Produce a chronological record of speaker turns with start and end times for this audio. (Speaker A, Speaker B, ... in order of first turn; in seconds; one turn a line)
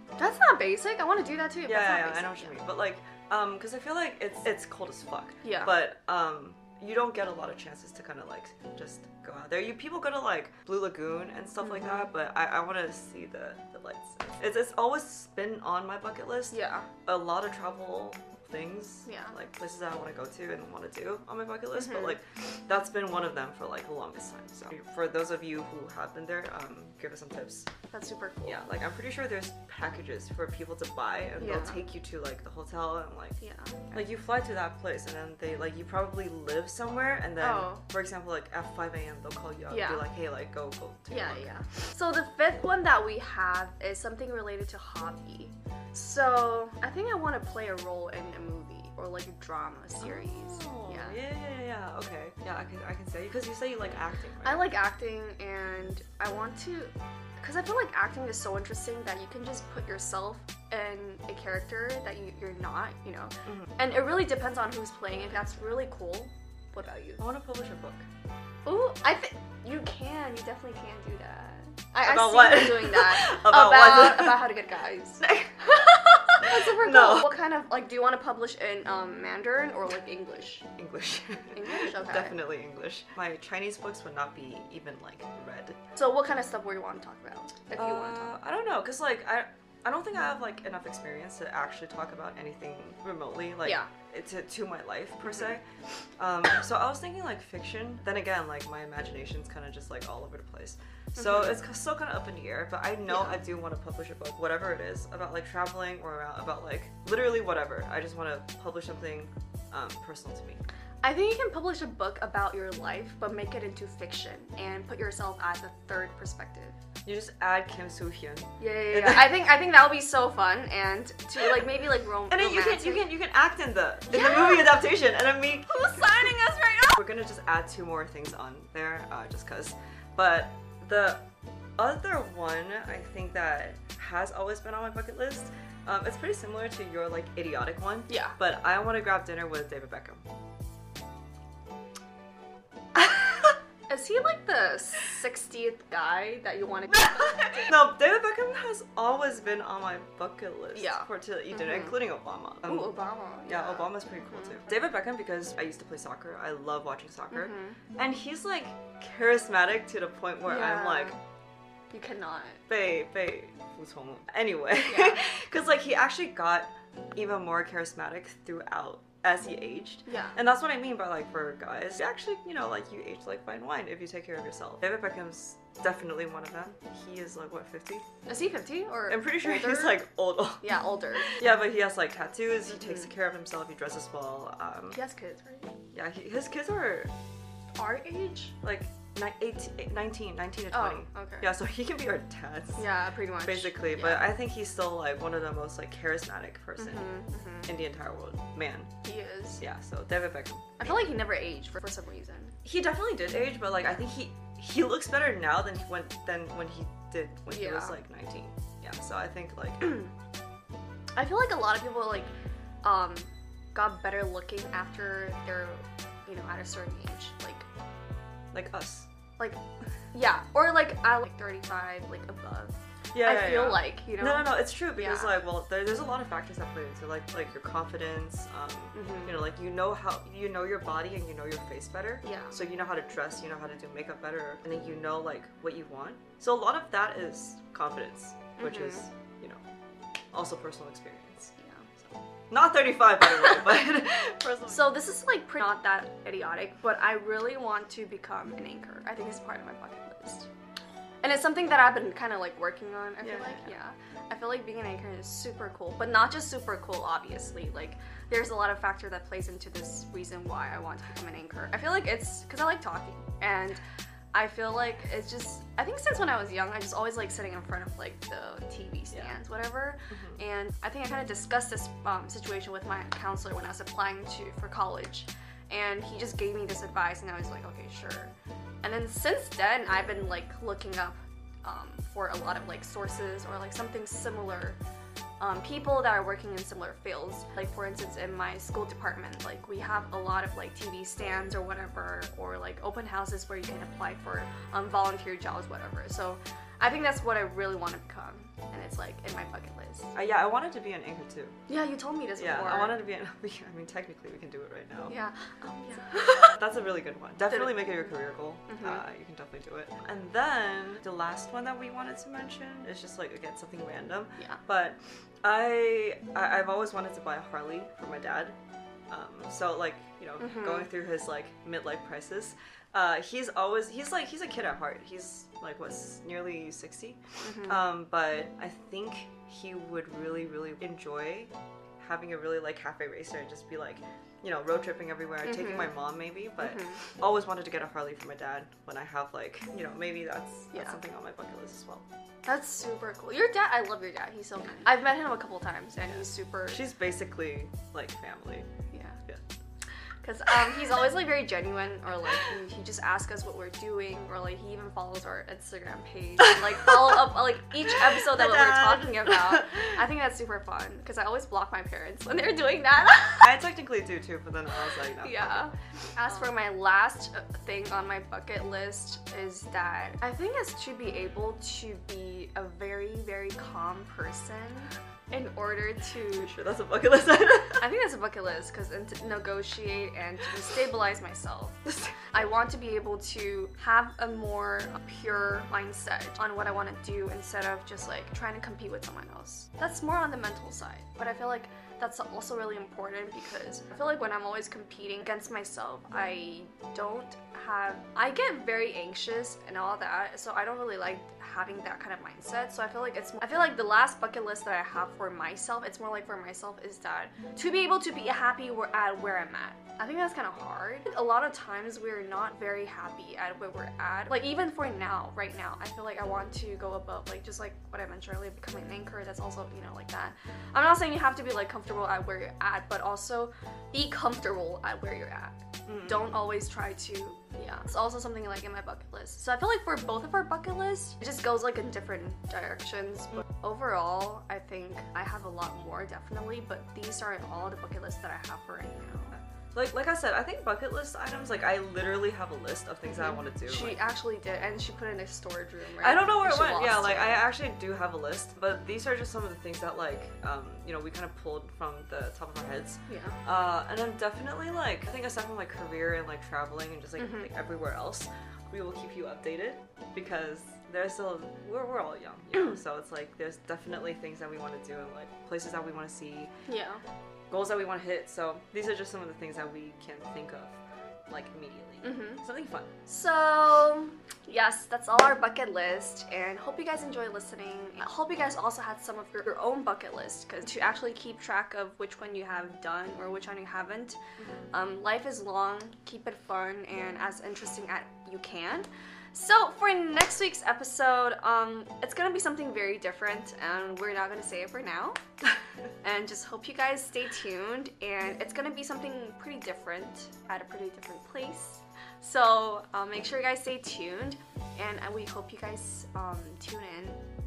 Speaker A: 0.2-2.6
Speaker B: 1.6-27.7
Speaker A: 5.4-5.7
Speaker A: 11.6-12.1
Speaker A: 16.5-16.9
Speaker A: 19.1-19.4
Speaker A: 21.7-22.2
Speaker A: 27.9-28.6
Speaker B: 28.4-33.4
Speaker A: 31.4-31.8
Speaker A: 33.4-34.0
Speaker B: 33.9-41.5
Speaker A: 37.4-37.8
Speaker A: 39.7-40.1
Speaker A: 41.1-51.2
Speaker B: 50.0-54.7
Speaker A: 54.4-67.2
Speaker B: 63.5-63.7
Speaker B: 67.2-68.1
Speaker A: 68.7-80.7
Speaker B: 72.0-74.5
Speaker B: 75.2-75.7
Speaker B: 76.4-77.3
Speaker B: 80.8-85.8
Speaker A: 81.5-82.4
Speaker A: 86.0-88.4
Speaker B: 87.8-95.6
Speaker B: 96.2-110.6
Speaker A: 101.2-101.6
Speaker A: 103.1-103.4
Speaker A: 111.0-116.8
Speaker B: 117.0-119.4
Speaker A: 118.6-123.1
Speaker B: 122.3-126.3
Speaker A: 124.1-124.8
Speaker A: 125.6-127.0
Speaker B: 127.0-131.2
Speaker B: 131.8-140.2
Speaker A: 138.1-138.4
Speaker A: 143.9-147.8
Speaker B: 146.9-152.9
Speaker A: 150.8-151.9
Speaker A: 152.6-154.6
Speaker B: 153.5-161.2
Speaker A: 157.3-157.8
Speaker A: 160.4-161.2
Speaker A: 161.9-162.6
Speaker B: 162.7-178.1
Speaker A: 164.8-165.2
Speaker A: 170.1-170.4
Speaker A: 178.3-180.0
Speaker B: 179.1-185.0
Speaker A: 180.6-181.4
Speaker A: 182.8-183.1
Speaker A: 184.9-185.7
Speaker B: 185.9-187.1
Speaker A: 187.8-188.6
Speaker B: 188.6-192.9
Speaker A: 190.7-191.5
Speaker A: 192.8-194.3
Speaker B: 193.4-198.9
Speaker A: 196.8-197.7
Speaker A: 199.0-199.6
Speaker B: 199.6-200.9
Speaker A: 200.8-202.6
Speaker B: 202.7-210.0
Speaker A: 207.5-207.9
Speaker A: 211.2-212.3
Speaker A: 212.8-217.7
Speaker B: 218.5-219.1
Speaker A: 220.1-225.3
Speaker B: 223.1-239.6
Speaker A: 228.9-229.4
Speaker A: 232.2-232.6
Speaker A: 238.6-239.1
Speaker B: 240.3-245.0
Speaker A: 241.6-241.9
Speaker A: 243.2-243.6
Speaker A: 244.7-250.5
Speaker A: 251.2-263.8
Speaker B: 253.2-253.7
Speaker A: 264.3-284.8
Speaker B: 270.1-270.4
Speaker A: 285.4-300.1
Speaker B: 300.1-301.6
Speaker A: 301.7-303.0
Speaker B: 302.4-305.2
Speaker A: 305.1-306.6
Speaker B: 306.4-318.6
Speaker A: 307.5-308.1
Speaker A: 308.7-309.0
Speaker B: 319.1-342.1
Speaker A: 320.4-320.9
Speaker A: 327.4-327.8
Speaker A: 335.4-335.9
Speaker A: 336.6-337.0
Speaker A: 342.5-346.8
Speaker B: 346.7-348.7
Speaker A: 348.9-349.2
Speaker A: 350.2-363.5
Speaker B: 358.3-359.7
Speaker B: 363.4-365.7
Speaker A: 365.2-376.5
Speaker B: 376.4-377.9
Speaker A: 377.8-439.4
Speaker B: 425.9-426.2
Speaker B: 439.4-444.0
Speaker A: 443.1-447.5
Speaker B: 446.0-466.5
Speaker A: 453.1-453.4
Speaker A: 457.2-457.5
Speaker A: 466.7-467.0
Speaker B: 467.5-472.9
Speaker A: 472.0-472.4
Speaker A: 473.1-484.2
Speaker B: 484.4-484.7
Speaker A: 484.7-495.2
Speaker A: 496.0-507.2